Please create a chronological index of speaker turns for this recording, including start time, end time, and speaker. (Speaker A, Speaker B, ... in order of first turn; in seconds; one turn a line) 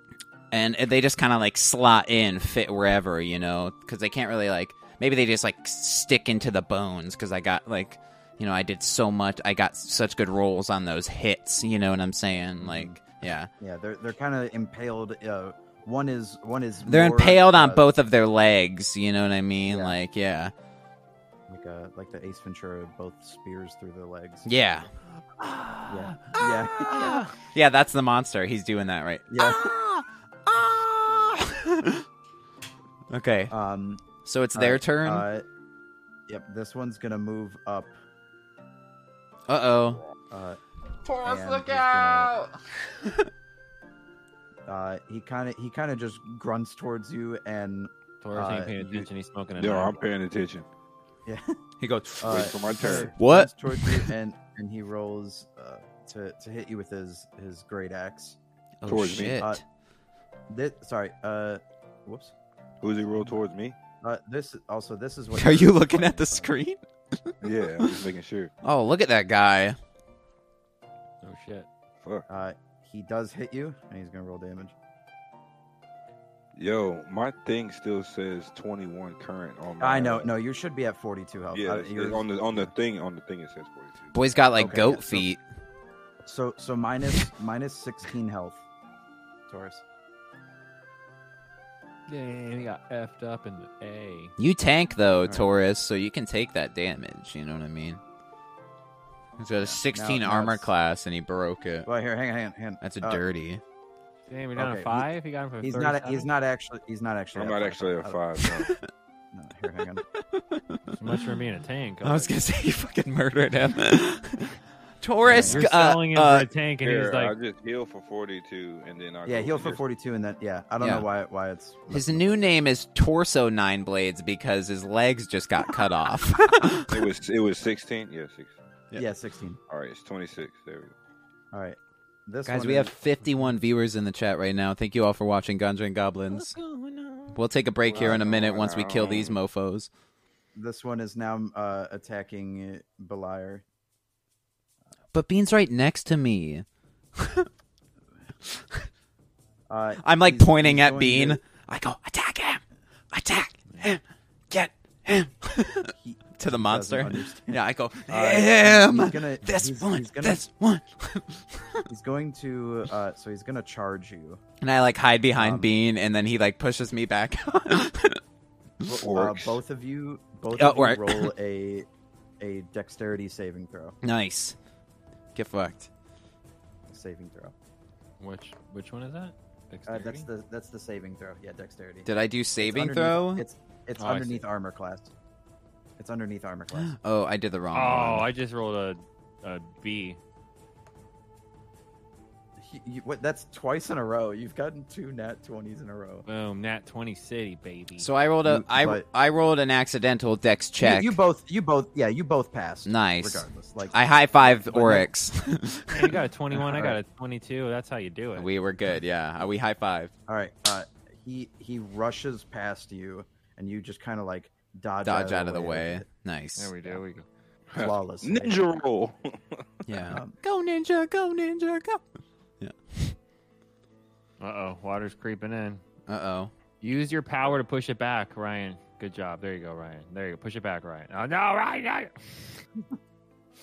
Speaker A: 0.5-13.5
Speaker B: 12.6-13.0
Speaker B: 13.6-17.9
Speaker A: 16.8-20.5
Speaker B: 19.7-19.9
Speaker B: 21.5-24.5
Speaker A: 24.4-32.0
Speaker B: 25.9-27.3
Speaker B: 29.3-29.7
Speaker A: 33.1-33.5
Speaker B: 33.5-35.4
Speaker A: 34.2-35.2
Speaker B: 36.3-37.9
Speaker A: 39.5-40.0
Speaker B: 40.3-40.6
Speaker A: 41.0-43.3
Speaker B: 41.2-42.3
Speaker B: 44.7-48.8
Speaker C: 48.2-50.0
Speaker D: 48.8-50.6
Speaker B: 51.2-51.5
Speaker A: 51.8-54.1
Speaker B: 52.2-58.4
Speaker D: 52.2-53.1
Speaker A: 58.8-59.6
Speaker D: 58.9-59.4
Speaker B: 60.5-62.3
Speaker D: 62.8-63.8
Speaker B: 64.0-66.5
Speaker A: 65.3-67.9
Speaker D: 67.4-68.5
Speaker A: 68.6-69.8
Speaker C: 71.2-71.7
Speaker B: 72.3-74.7
Speaker D: 76.5-80.3
Speaker B: 79.8-82.7
Speaker D: 81.5-84.2
Speaker A: 84.1-85.4
Speaker B: 84.6-85.3
Speaker B: 86.2-88.6
Speaker B: 89.5-89.8
Speaker C: 92.1-94.3
Speaker A: 94.4-98.0
Speaker A: 99.4-101.9
Speaker B: 99.6-100.7
Speaker B: 101.8-103.2
Speaker A: 102.8-103.6
Speaker C: 104.3-106.3
Speaker B: 104.6-105.1
Speaker B: 105.6-108.2
Speaker D: 107.3-108.7
Speaker A: 108.4-108.8
Speaker B: 109.3-110.0
Speaker A: 110.3-111.0
Speaker C: 111.0-112.4
Speaker A: 112.0-116.5
Speaker B: 115.2-115.7
Speaker C: 115.4-117.3
Speaker D: 116.8-119.8
Speaker B: 119.2-122.4
Speaker A: 120.8-121.1
Speaker A: 121.9-126.9
Speaker D: 126.9-128.5
Speaker B: 128.9-129.6
Speaker D: 129.7-130.9
Speaker B: 131.5-132.9
Speaker A: 132.4-136.6
Speaker C: 136.3-137.4
Speaker A: 137.3-139.9
Speaker D: 137.8-139.4
Speaker B: 138.0-138.2
Speaker B: 140.5-143.6
Speaker A: 145.1-146.6
Speaker A: 147.2-147.5
Speaker B: 149.7-151.4
Speaker A: 150.0-161.8
Speaker B: 155.9-160.4
Speaker B: 161.9-164.4
Speaker A: 164.6-168.2
Speaker B: 165.3-165.7
Speaker B: 168.8-171.9
Speaker D: 169.0-169.6
Speaker A: 170.5-171.3
Speaker B: 172.4-174.0
Speaker A: 174.0-174.6
Speaker A: 175.3-175.9
Speaker B: 176.9-177.5
Speaker C: 178.2-180.3
Speaker B: 179.9-182.1
Speaker A: 182.1-183.4
Speaker B: 182.6-185.1
Speaker C: 184.0-184.4
Speaker B: 186.0-186.9
Speaker A: 186.7-188.3
Speaker C: 187.7-190.2
Speaker B: 192.6-196.2
Speaker C: 196.2-198.1
Speaker A: 198.0-201.2
Speaker B: 198.4-199.0
Speaker B: 200.8-205.1
Speaker A: 202.8-206.1
Speaker C: 205.9-208.5
Speaker B: 206.5-207.0
Speaker A: 208.3-210.1
Speaker B: 210.3-216.0
Speaker A: 215.0-217.0
Speaker C: 216.6-217.3
Speaker D: 217.7-219.8
Speaker B: 217.7-218.6
Speaker A: 219.8-222.0
Speaker B: 220.1-220.3
Speaker A: 222.6-223.1
Speaker C: 224.4-225.8
Speaker A: 226.1-226.5
Speaker C: 226.8-232.4